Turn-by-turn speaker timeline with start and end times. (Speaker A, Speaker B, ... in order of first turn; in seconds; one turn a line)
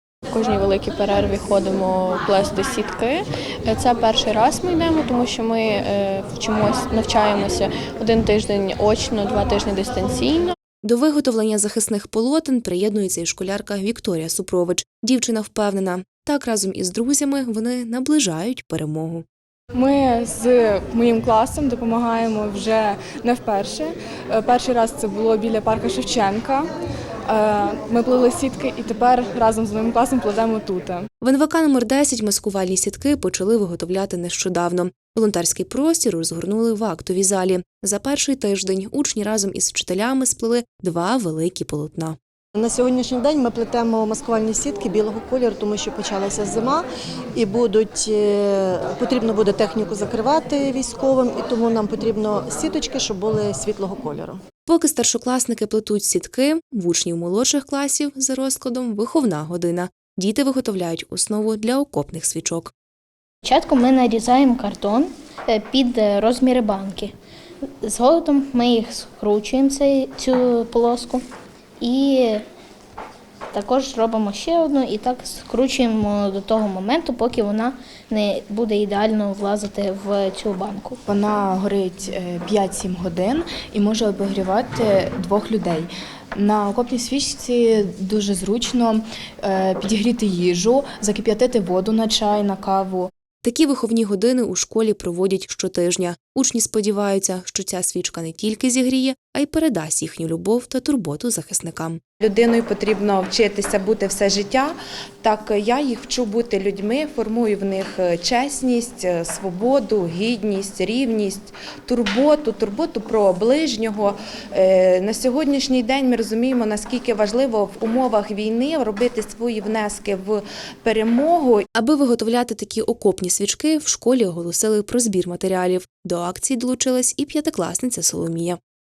Speaker A: 0.3-10.6
Speaker B: 10.8-19.2
Speaker C: 19.7-26.7
Speaker C: 27.3-31.1
Speaker B: 31.2-42.2
Speaker D: 42.6-46.9
Speaker D: 47.4-54.4
Speaker B: 54.7-62.7
Speaker E: 63.4-67.1
Speaker E: 67.8-71.2
Speaker E: 71.8-72.4
Speaker E: 73.5-81.0
Speaker F: 81.1-93.0
Speaker B: 93.4-102.0
Speaker G: 102.2-121.7
Speaker B: 121.8-128.6